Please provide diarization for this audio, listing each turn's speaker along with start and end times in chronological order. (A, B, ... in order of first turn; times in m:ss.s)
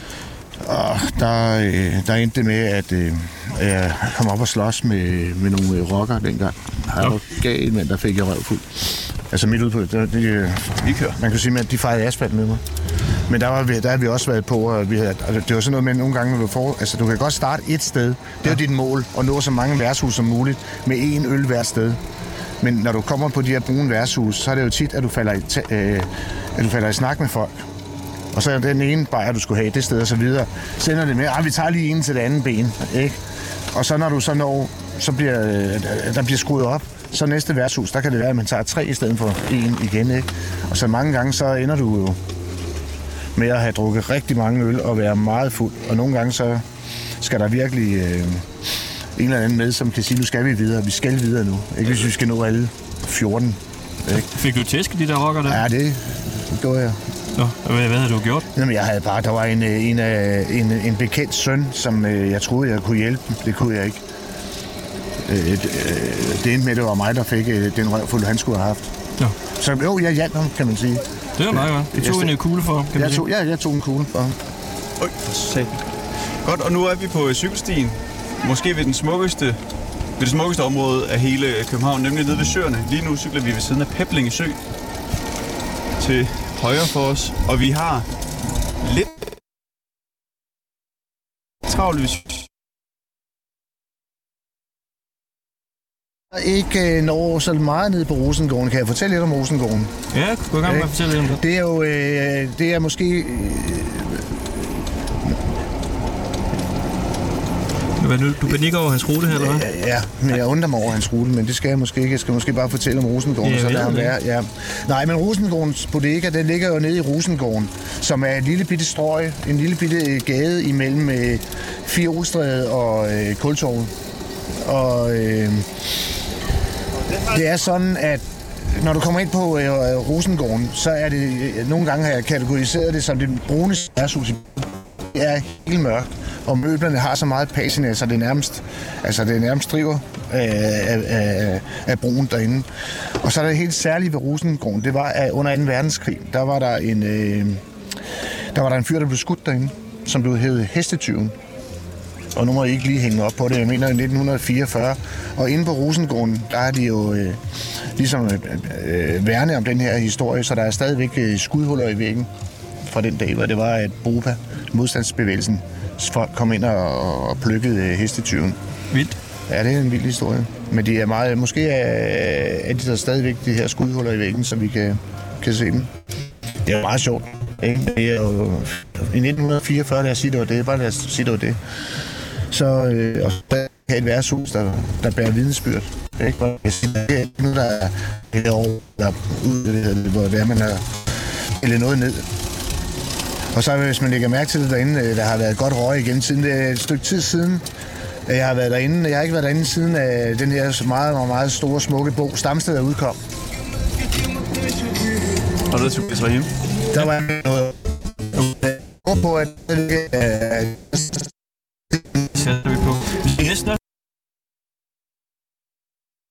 0:00.6-0:12.6 A
0:10.8-0:11.2 B
0:13.3-0:22.0 A
0:22.6-0:27.6 A
0:28.3-0:33.2 A
0:33.7-0:42.2 A
0:43.4-0:46.6 A
0:47.2-0:48.5 A
0:49.2-0:54.2 A
0:54.1-0:55.6 C
0:55.4-0:57.0 A
0:57.3-0:58.5 C
0:58.5-1:04.0 A
1:05.2-1:08.9 A
1:09.6-1:12.4 A
1:11.4-1:13.2 C
1:12.9-1:14.4 A
1:15.0-1:15.8 B
1:16.4-1:19.6 B
1:20.2-1:24.6 B
1:26.0-1:28.1 B
1:28.8-1:29.2 B
1:31.6-1:32.4 B
1:36.3-1:40.0 A
1:40.1-1:41.4 C
1:40.6-1:44.4 A
1:48.0-1:49.7 C
1:49.2-2:03.9 A
1:53.4-1:54.1 C
2:04.6-2:05.7 A
2:07.2-2:22.7 A
2:23.2-2:27.6 A
2:28.5-2:31.4 A
2:32.4-2:37.4 A
2:38.0-2:42.3 A
2:42.9-2:48.6 A
2:48.9-2:49.2 C
2:49.5-2:55.9 A
2:56.6-3:01.6 A
3:02.5-3:10.9 A
3:11.6-3:12.3 A
3:13.5-3:17.7 A
3:18.3-3:23.2 A
3:25.7-3:26.5 B
3:26.9-3:27.8 A
3:28.3-3:31.3 A
3:32.3-3:33.8 C